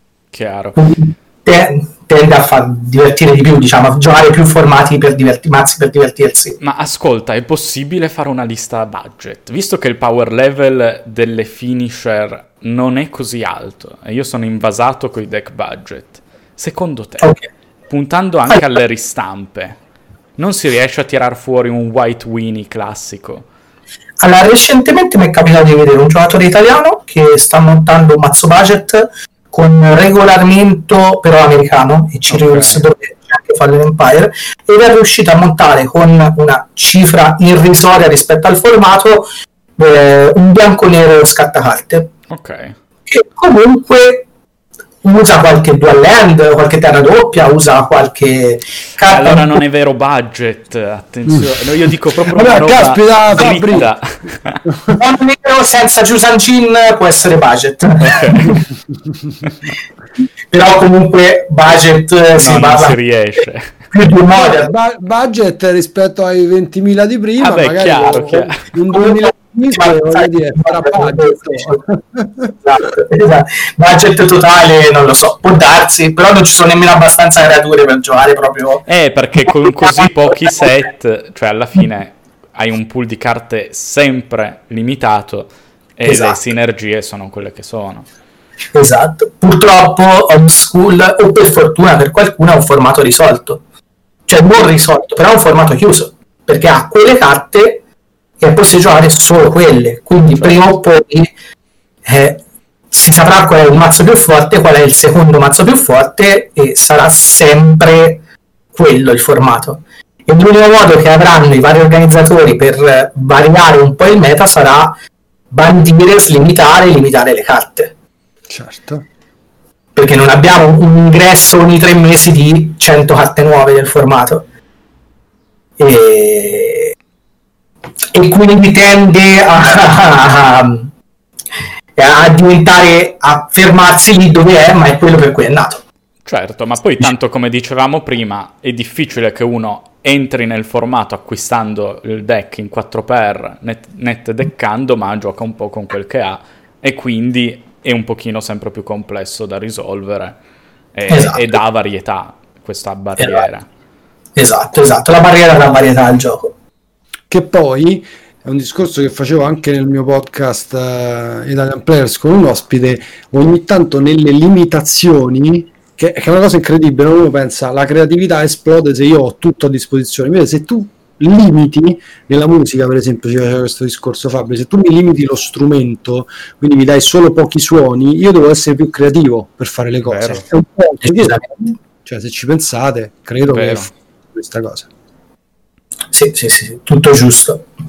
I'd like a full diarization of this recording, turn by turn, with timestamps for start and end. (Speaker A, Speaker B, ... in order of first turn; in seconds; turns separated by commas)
Speaker A: 0.3-0.8, Speaker B: 0.8-6.6, Speaker A: 6.6-17.4, Speaker B: 17.2-17.4, Speaker A: 17.9-19.8, Speaker A: 20.4-23.4, Speaker B: 24.2-39.3, Speaker C: 32.3-32.8, Speaker B: 39.8-42.1, Speaker A: 42.3-42.8, Speaker B: 43.1-44.2, Speaker B: 45.0-49.6, Speaker A: 49.0-54.6, Speaker C: 52.3-53.9, Speaker C: 54.7-55.0, Speaker B: 54.9-58.6, Speaker A: 58.1-58.5, Speaker B: 60.5-63.0, Speaker A: 62.4-63.7, Speaker B: 63.9-64.7, Speaker C: 64.3-72.5, Speaker A: 67.4-68.6, Speaker B: 68.9-71.8, Speaker B: 72.6-78.8, Speaker A: 78.9-88.1, Speaker B: 79.5-80.0, Speaker B: 86.0-86.4, Speaker B: 88.7-93.6, Speaker B: 94.3-97.8, Speaker B: 98.4-101.3, Speaker B: 102.0-108.2, Speaker B: 108.7-114.9, Speaker B: 115.5-117.9, Speaker C: 118.5-119.0, Speaker B: 119.9-124.4, Speaker B: 125.8-126.9, Speaker B: 128.1-130.9, Speaker B: 132.0-135.8, Speaker A: 136.2-150.4, Speaker A: 150.9-153.7, Speaker B: 151.1-151.6, Speaker B: 153.2-153.4, Speaker B: 154.3-156.5, Speaker C: 157.3-184.9, Speaker A: 180.1-180.4, Speaker B: 181.0-181.7, Speaker A: 183.5-183.9, Speaker B: 186.1-187.6